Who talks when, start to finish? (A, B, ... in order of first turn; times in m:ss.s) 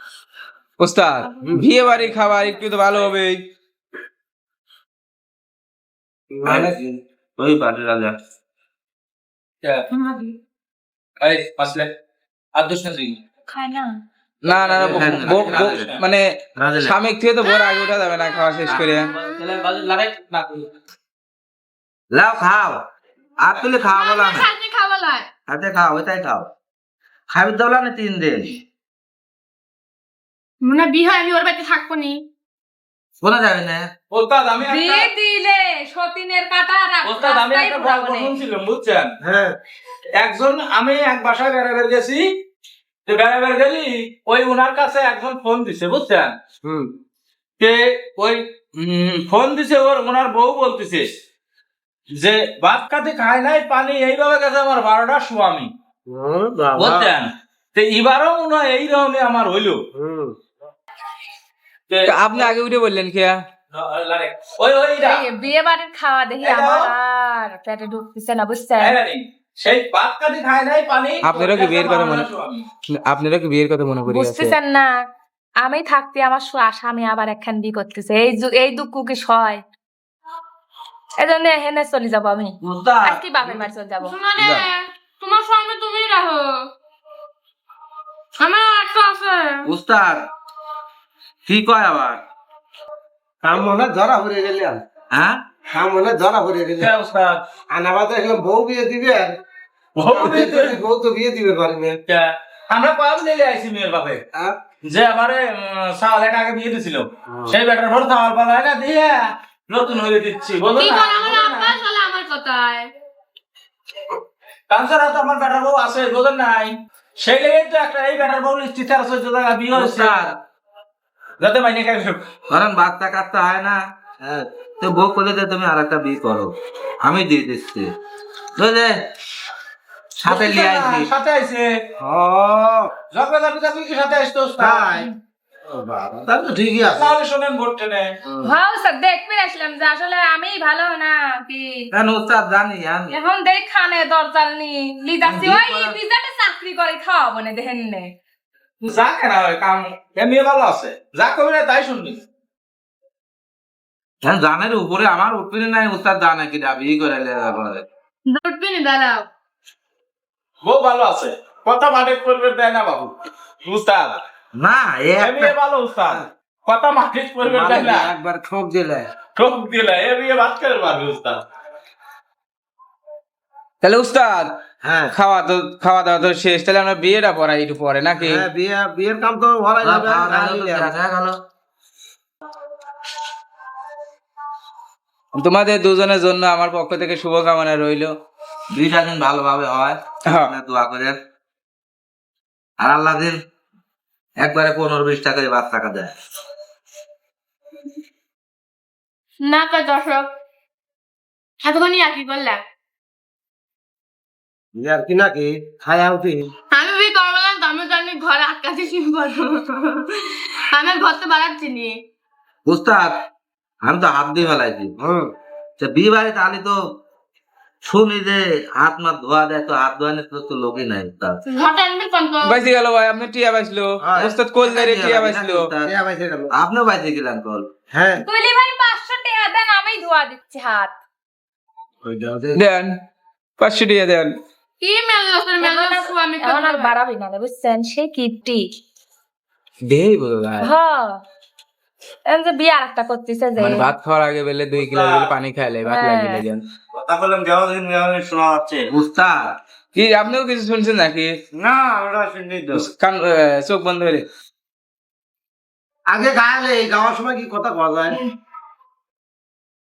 0:00.8-0:03.4 A
0:06.3-0:06.8 B
0:06.4-0:08.2 C
0:10.0-0:10.2 D
0:11.2-0:11.9 E
0:12.6-0:13.2 E
0:13.5-0:13.9 D
0:14.4-0:16.3 A
0:14.6-0:16.0 E
0:14.8-0:15.9 C
0:16.6-0:17.0 C
0:16.8-0:19.2 A
0:18.8-0:20.7 E
0:22.1-0:22.8 C
0:23.4-0:24.5 C
0:24.0-0:25.3 F
0:25.5-0:26.5 C
0:27.3-0:28.6 C
0:30.6-0:32.2 F
0:33.2-0:33.9 C
0:34.1-0:35.1 E
0:34.6-0:38.4 D
0:37.0-0:39.1 E
0:39.2-0:39.6 B
0:40.2-0:42.3 E
0:43.1-0:46.4 E
0:46.6-0:46.9 B
0:47.6-0:48.4 E
0:48.8-0:49.3 A
0:49.3-0:51.1 E
0:52.2-0:55.7 E
0:56.1-0:57.1 B
0:56.8-0:59.8 E
1:00.0-1:00.4 B
1:01.9-1:02.5 E
1:02.0-1:03.4 A
1:03.7-1:05.3 E
1:05.0-1:09.0 D
1:06.4-1:06.9 E
1:08.8-1:12.6 E
1:11.2-1:12.3 A
1:12.9-1:14.6 A
1:14.1-1:14.9 D
1:15.6-1:19.6 D
1:21.2-1:24.2 D
1:22.6-1:23.7 C
1:24.2-1:26.5 F
1:24.4-1:24.7 A
1:28.4-1:29.6 F
1:29.6-1:30.2 C
1:31.5-1:32.2 C
1:33.4-1:34.8 B
1:35.1-1:35.4 C
1:35.7-1:36.9 B
1:36.8-1:37.4 E
1:37.7-1:39.4 B
1:40.0-1:40.8 E
1:40.1-1:42.0 B
1:42.1-1:44.2 E
1:44.8-1:51.8 E
1:47.3-1:47.6 B
1:50.9-1:52.9 F
1:54.7-2:00.3 E
1:59.7-2:00.4 C
2:01.4-2:02.3 E
2:02.5-2:03.8 C
2:04.2-2:04.5 B
2:04.8-2:07.9 C
2:08.6-2:08.9 C
2:10.2-2:11.1 C
2:10.3-2:11.7 E
2:12.0-2:12.9 B
2:13.1-2:15.1 E
2:14.6-2:15.1 B
2:15.7-2:17.1 B
2:17.0-2:18.2 E
2:18.4-2:21.9 D
2:21.9-2:23.1 C
2:23.1-2:28.1 D
2:25.5-2:25.9 C
2:28.8-2:32.2 E
2:34.2-2:37.8 C
2:38.3-2:39.3 F
2:40.6-2:43.1 E
2:43.6-2:44.2 E
2:44.6-2:45.5 C
2:45.2-2:48.1 E
2:47.4-2:49.1 B
2:49.4-2:51.4 E
2:53.8-2:54.5 A
2:54.8-2:55.1 B
2:55.1-2:58.4 A
2:58.2-3:00.9 B
2:59.8-3:01.4 C
3:05.3-3:08.1 A
3:08.7-3:11.2 C
3:10.3-3:10.5 A
3:12.8-3:13.4 C
3:14.4-3:16.1 C
3:19.5-3:20.3 F
3:21.7-3:22.6 F
3:24.8-3:26.5 B
3:26.7-3:31.9 F
3:32.7-3:33.2 C
3:33.8-3:34.9 C
3:35.0-3:35.3 B
3:35.8-3:36.8 C
3:37.8-3:41.4 C
3:41.6-3:42.5 F
3:42.4-3:45.7 A
3:44.0-3:44.4 B
3:44.6-3:45.9 C
3:45.8-3:46.5 B
3:46.5-3:47.7 C
3:47.9-3:48.2 B
3:48.2-3:50.9 D
3:52.0-3:52.6 B
3:52.6-3:52.9 A
3:53.6-3:54.3 A
3:54.8-3:56.9 F
3:55.6-3:58.7 D
3:59.8-4:00.7 A
4:00.6-4:01.2 D
4:02.3-4:03.9 D
4:03.6-4:06.6 A
4:04.8-4:05.3 E
4:05.8-4:06.4 D
4:07.1-4:08.7 G
4:08.9-4:09.6 C
4:09.9-4:11.3 A
4:11.8-4:12.7 G
4:12.7-4:14.2 A
4:16.1-4:18.2 B